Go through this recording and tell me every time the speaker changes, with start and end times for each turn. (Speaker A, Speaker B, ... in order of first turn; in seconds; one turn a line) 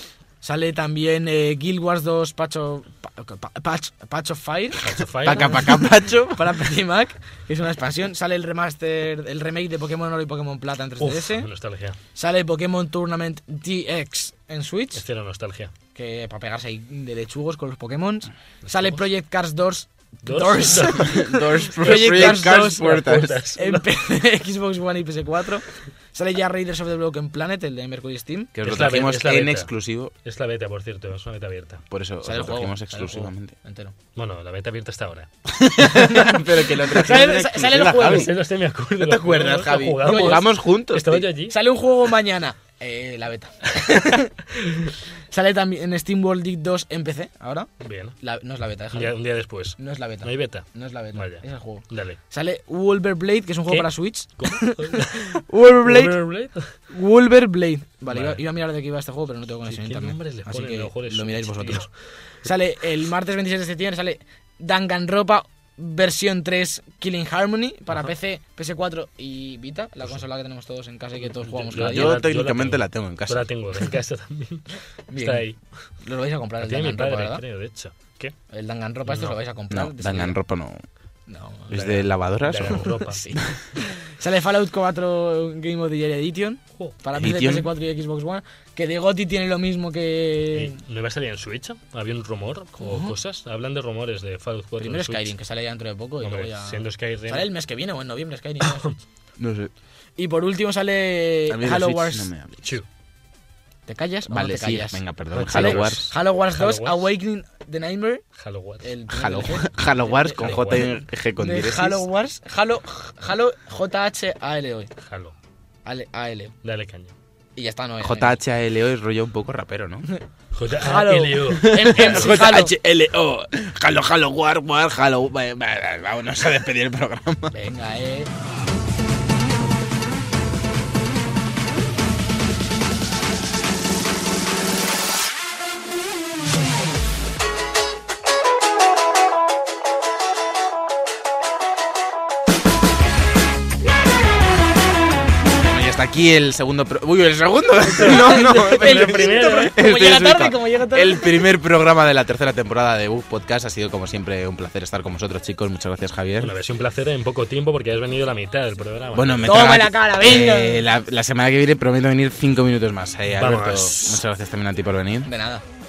Speaker A: 0.4-4.9
Speaker B: 4.8-5.8
Speaker C: 5.2-6.7
Speaker A: 6.3-11.5
Speaker B: 11.0-12.0
Speaker A: 12.2-15.0
Speaker B: 14.9-15.7
Speaker A: 15.9-28.5
Speaker B: 18.6-19.0
Speaker B: 20.2-23.9
Speaker C: 20.9-23.4
Speaker C: 28.5-30.1
Speaker B: 28.6-29.7
Speaker B: 30.2-31.8
Speaker C: 31.9-33.5
Speaker A: 32.2-34.0
Speaker B: 34.1-35.3
Speaker C: 35.6-38.3
Speaker A: 35.8-38.3
Speaker B: 38.0-41.6
Speaker C: 39.0-41.3
Speaker A: 40.0-40.5
Speaker A: 41.4-44.4
Speaker B: 44.5-44.9
Speaker A: 45.3-47.7
Speaker B: 47.8-48.2
Speaker A: 48.2-49.1
Speaker B: 48.9-52.2
Speaker A: 49.8-56.2
Speaker B: 53.7-56.8
Speaker A: 56.9-61.9
Speaker B: 58.1-58.4
Speaker B: 59.7-61.9
Speaker A: 62.4-72.2
Speaker B: 71.2-75.6
Speaker C: 71.7-73.4
Speaker A: 75.1-77.4
Speaker B: 76.6-78.3
Speaker A: 78.5-80.4
Speaker B: 79.1-79.3
Speaker C: 79.7-80.8
Speaker A: 81.3-90.8
Speaker C: 81.7-83.0
Speaker B: 82.4-83.2
Speaker C: 87.2-87.7
Speaker B: 90.5-95.3
Speaker A: 92.8-93.2
Speaker A: 94.8-98.9
Speaker B: 96.2-97.5
Speaker B: 98.6-99.0
Speaker C: 99.4-99.7
Speaker A: 100.2-102.3
Speaker C: 101.5-102.8
Speaker A: 103.9-108.2
Speaker C: 104.3-106.0
Speaker B: 105.3-107.1
Speaker B: 108.4-108.9
Speaker A: 108.8-114.9
Speaker C: 109.1-112.1
Speaker B: 110.4-110.9
Speaker B: 115.0-115.3
Speaker A: 115.8-116.5
Speaker B: 116.6-117.2
Speaker A: 117.6-118.4
Speaker C: 118.0-120.1
Speaker A: 120.1-122.8
Speaker B: 120.5-122.4
Speaker C: 121.5-127.5
Speaker A: 127.5-128.3
Speaker C: 145.6-156.5
Speaker B: 147.9-149.7
Speaker A: 148.0-151.4
Speaker B: 156.4-159.8
Speaker C: 159.1-165.3
Speaker A: 159.4-160.8
Speaker B: 163.4-164.2
Speaker A: 165.2-165.6